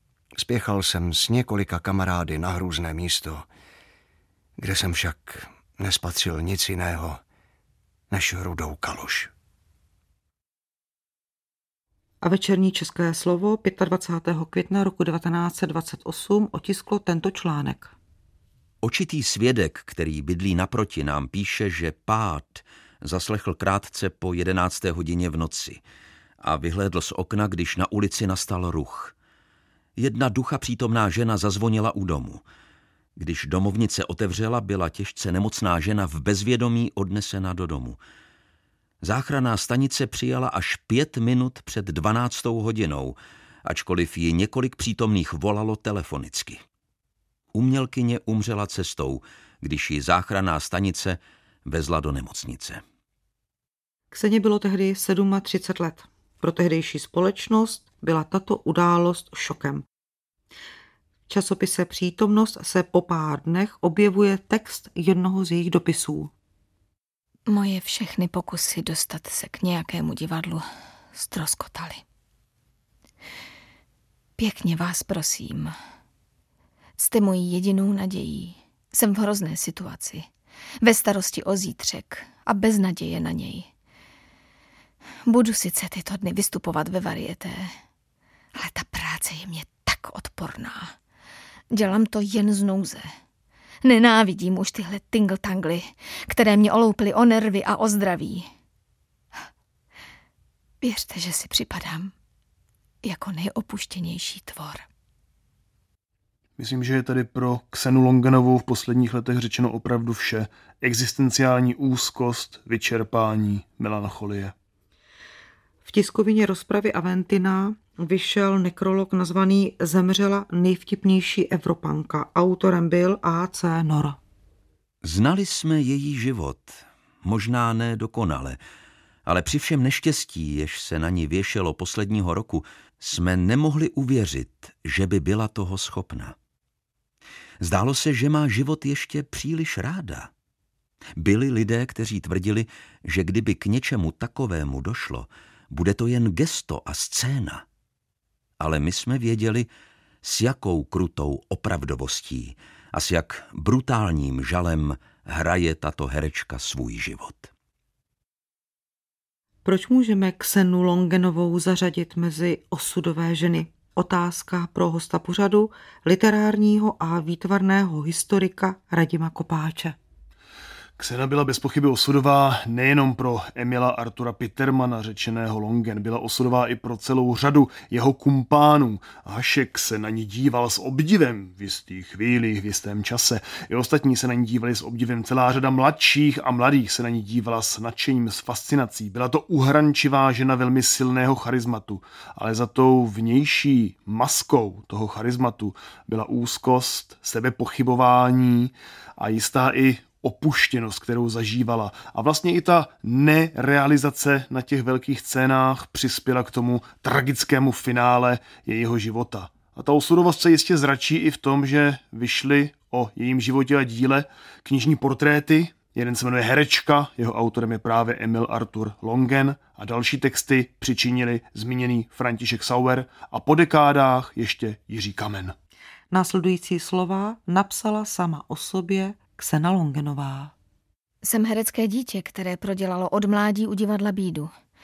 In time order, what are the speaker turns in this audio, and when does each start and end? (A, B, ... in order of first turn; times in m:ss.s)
0:00.4-0:03.5 A
0:04.6-0:07.2 A
0:08.1-0:09.3 A
0:12.2-0:17.9 B
0:18.8-0:25.8 C
0:26.4-0:29.1 C
0:30.0-0:32.4 C
0:33.2-0:38.0 C
0:39.0-0:46.6 C
0:47.5-0:52.8 C
0:54.1-0:59.8 B
1:01.3-1:06.3 B
1:07.5-1:12.0 D
1:14.4-1:15.7 D
1:17.0-1:20.3 D
1:20.8-1:23.7 D
1:25.3-1:27.7 D
1:28.5-1:30.9 D
1:31.7-1:33.1 D
1:33.8-1:38.5 D
1:40.8-1:42.1 D
1:43.0-1:44.8 D
1:46.6-1:54.5 E
1:55.8-2:04.2 B
2:05.0-2:08.6 C
2:09.2-2:16.3 C
2:17.6-2:20.3 C
2:21.2-2:27.6 C
2:28.6-2:29.7 C
2:30.2-2:37.5 C
2:39.6-2:50.0 B
2:51.0-3:45.6 E
3:46.1-3:50.5 B
3:51.2-3:54.5 D